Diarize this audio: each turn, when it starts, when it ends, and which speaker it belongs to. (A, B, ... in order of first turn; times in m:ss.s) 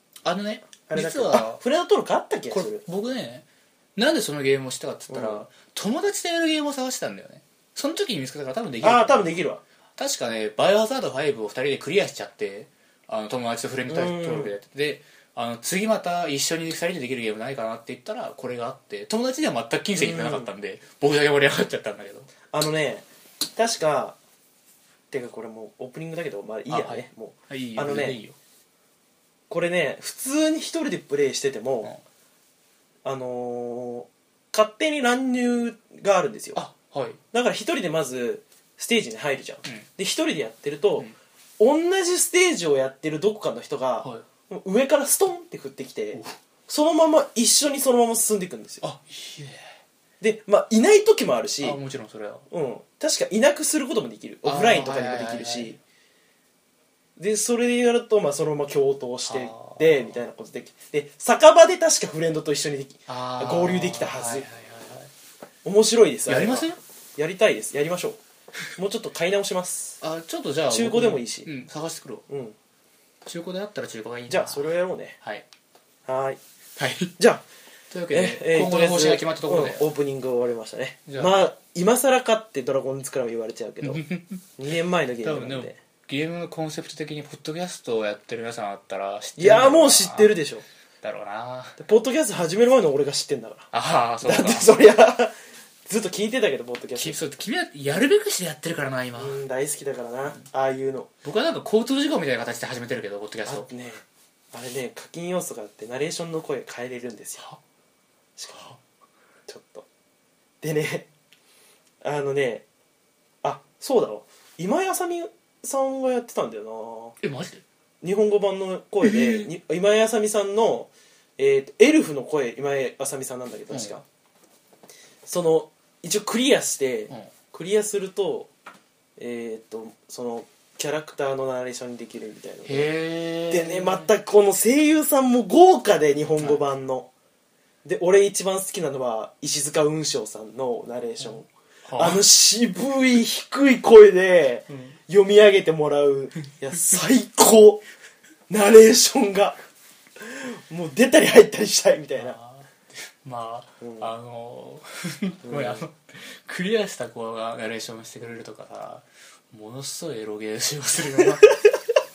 0:00.2-0:01.6 A
0:00.9-0:02.8 B
0:02.5-0:09.3 A
0:05.1-0:05.5 B
0:08.8-0:09.6 B
0:10.0-0:22.3 A
0:13.9-0:14.6 B
0:20.0-0:20.5 B
0:22.5-0:24.2 B
0:25.1-0:28.2 B
0:26.7-0:28.4 A
0:29.5-0:31.9 B
0:33.0-0:36.6 B
0:36.6-0:37.2 A
0:37.3-0:48.8 B
0:48.8-0:49.7 A
0:50.2-0:51.8 B
0:51.6-0:52.5 A
0:52.5-0:55.8 B
0:54.4-0:55.8 A
0:57.2-1:04.5 B
0:59.3-1:00.2 A
1:03.1-1:05.1 A
1:05.6-1:08.2 B
1:06.3-1:06.8 A
1:08.8-1:10.0 B
1:10.0-1:12.2 A
1:10.7-1:11.5 B
1:12.3-1:12.6 B
1:13.2-1:15.5 A
1:14.3-1:15.2 B
1:16.1-1:16.4 B
1:16.8-1:17.1 A
1:17.2-1:17.4 B
1:17.9-1:19.9 A
1:18.1-1:24.0 B
1:21.1-1:21.4 A
1:23.8-1:24.4 A
1:24.6-1:25.8 B
1:25.2-1:30.3 A
1:29.4-1:30.6 B
1:31.0-1:31.8 A
1:31.8-1:33.7 B
1:33.7-1:34.8 A
1:34.2-1:35.3 B
1:35.9-1:37.2 B
1:37.0-1:39.4 A
1:39.2-1:41.1 B
1:41.2-1:43.7 A
1:43.5-1:47.5 B
1:48.4-1:48.8 B
1:49.5-1:49.9 B
1:50.6-1:51.1 B
1:52.0-1:52.6 B
1:53.4-1:57.2 B
1:57.2-1:57.6 A
1:58.0-2:04.0 B
1:59.0-1:59.5 A
2:03.7-2:04.0 A
2:05.3-2:08.5 B
2:09.2-2:12.9 B
2:12.6-2:14.1 A
2:13.5-2:17.1 B
2:17.8-2:27.8 B
2:21.9-2:22.2 A
2:24.7-2:25.0 A
2:28.5-2:29.6 B
2:30.2-2:32.4 B
2:32.1-2:41.6 A
2:33.8-2:34.1 B
2:35.4-2:35.9 B